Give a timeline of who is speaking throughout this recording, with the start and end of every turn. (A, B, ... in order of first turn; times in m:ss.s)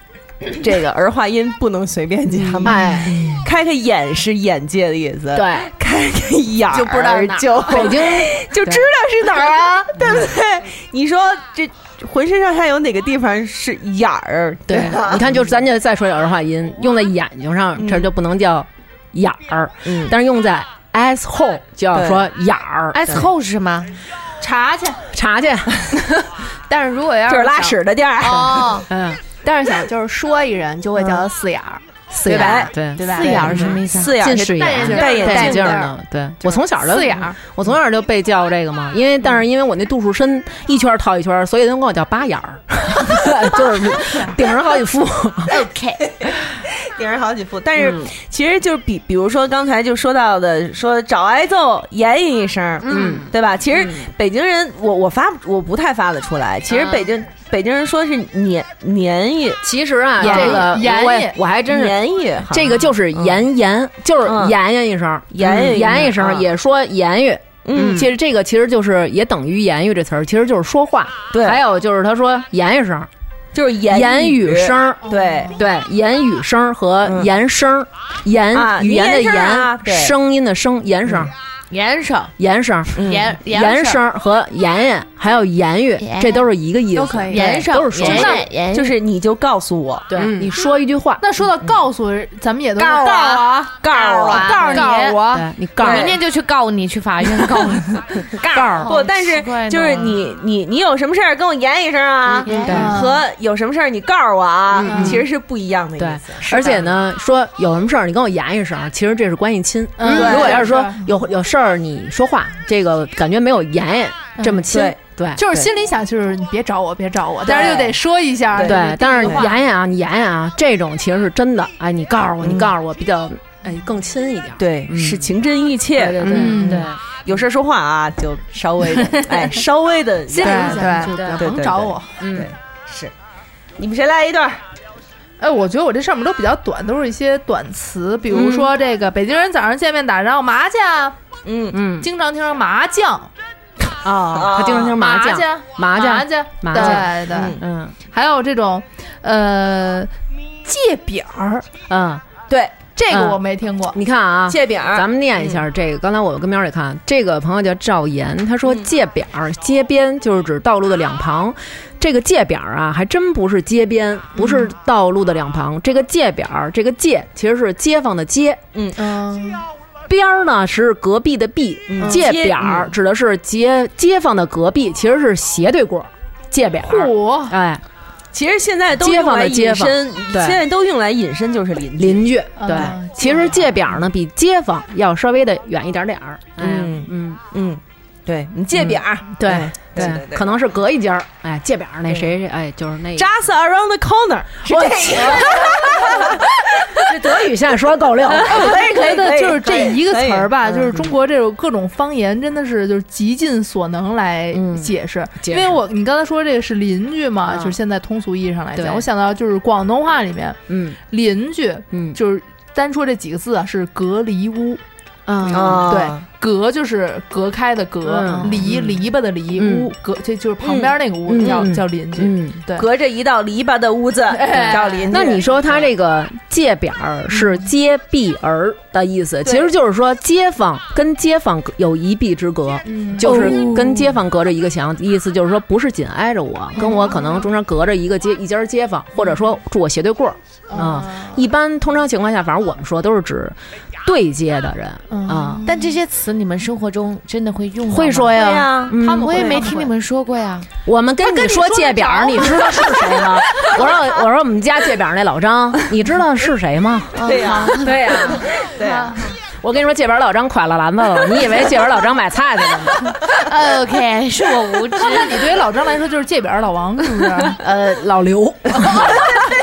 0:00.5-0:15.5 A
0:02.5-0:03.2 B
0:05.3-0:05.7 B
0:06.7-0:08.0 C
0:07.7-0:08.9 B
0:14.7-0:23.2 B
0:17.8-0:18.1 A
0:19.8-0:20.1 A
0:21.9-0:22.2 A
0:22.9-0:24.0 D
0:24.4-0:25.0 E
0:25.1-0:26.3 B
0:26.7-0:27.8 C
0:27.3-0:28.7 A
0:28.2-0:28.9 D
0:28.9-0:29.2 B
0:29.3-0:33.8 C
0:32.1-0:45.6 B
0:32.3-0:32.7 A
0:33.0-0:35.8 D
0:33.8-0:35.7 A
0:34.6-0:35.9 C
0:36.5-0:37.3 C
0:45.5-0:46.0 D
0:46.0-0:59.6 A
0:52.8-0:53.3 B
0:52.9-0:53.2 D
0:59.6-1:13.1 B
1:00.2-1:01.4 E
1:00.2-1:00.8 A
1:01.7-1:03.4 A
1:04.2-1:04.6 A
1:05.3-1:06.5 A
1:07.6-1:08.1 A
1:11.3-1:11.6 A
1:13.5-1:15.6 A
1:13.9-1:21.3 B
1:15.1-1:15.5 E
1:18.5-1:20.1 A
1:21.7-1:22.3 D
1:22.4-1:28.4 B
1:23.0-1:23.3 A
1:23.0-1:24.0 D
1:26.0-1:26.4 D
1:26.9-1:27.6 C
1:27.3-1:28.9 D
1:28.0-1:30.4 A
1:30.1-1:31.2 B
1:31.2-1:35.4 E
1:33.8-1:34.9 A
1:33.9-1:35.2 D
1:35.3-1:36.2 B
1:35.8-1:36.2 A
1:35.8-1:40.2 D
1:38.5-1:38.8 B
1:38.9-1:46.5 A
1:42.4-1:42.9 D
1:42.5-1:43.0 B
1:42.6-1:43.2 E
1:44.7-1:45.2 B
1:44.8-1:45.2 E
1:46.0-1:55.7 B
1:46.4-1:46.8 E
1:50.0-1:51.1 E
1:50.1-1:50.7 A
1:54.4-1:54.6 E
1:54.7-1:55.0 A
1:55.4-1:59.5 E
1:57.4-1:57.9 A
1:58.5-1:59.5 A
1:58.6-2:05.3 B
2:02.4-2:02.7 A
2:04.6-2:13.1 A
2:06.0-2:07.0 B
2:06.2-2:06.9 E
2:10.3-2:12.2 E
2:10.4-2:11.8 C
2:10.4-2:11.4 B
2:12.2-2:12.5 B
2:13.8-2:14.6 A
2:15.4-2:21.2 E
2:21.4-2:21.8 A
2:21.7-2:22.1 B
2:22.0-2:23.3 E
2:24.0-2:27.9 B
2:24.3-2:25.0 A
2:24.9-2:30.1 E
2:26.7-2:27.6 A
2:30.6-2:31.7 E
2:31.9-2:32.2 B
2:32.5-2:32.9 A
2:32.9-2:34.0 E
2:33.1-2:33.4 B
2:33.9-2:48.6 B
2:34.5-2:35.0 A
2:44.4-2:44.7 E
2:48.7-2:49.0 A
2:49.0-2:49.6 E
2:50.1-2:57.8 B
2:51.9-2:52.9 A
2:56.8-2:57.6 E
2:58.3-3:02.9 A
2:59.0-3:00.6 B
3:02.0-3:07.4 B
3:02.6-3:03.7 E
3:06.6-3:10.5 A
3:08.8-3:13.3 B
3:13.2-3:17.4 A
3:14.6-3:16.4 B
3:16.9-3:18.8 B
3:18.3-3:20.5 A
3:18.5-3:34.8 E
3:20.7-3:21.1 B
3:24.5-3:25.8 B
3:27.5-3:27.8 B
3:28.8-3:29.0 B
3:30.7-3:31.0 B
3:31.9-3:32.2 B
3:35.3-3:36.0 B
3:35.5-3:36.2 A
3:35.6-3:42.8 E
3:38.0-3:38.8 B
3:39.5-3:39.9 B
3:40.6-3:41.7 A
3:41.2-3:42.6 B
3:42.7-3:45.9 A
3:44.3-3:45.2 E
3:45.1-4:05.7 B
3:52.8-3:53.6 E
3:53.2-3:54.0 A
3:56.8-3:57.4 E
4:00.7-4:01.3 E
4:05.1-4:05.7 E
4:05.6-4:10.7 D
4:07.9-4:09.8 B
4:08.3-4:09.7 A
4:09.4-4:09.8 E
4:10.8-4:18.5 B
4:11.2-4:13.3 E
4:17.2-4:19.1 D
4:17.2-4:17.8 A
4:18.5-4:19.2 A
4:19.6-4:23.2 B
4:23.3-4:25.5 D
4:25.0-4:27.6 E
4:27.5-4:29.3 B
4:28.8-4:29.2 E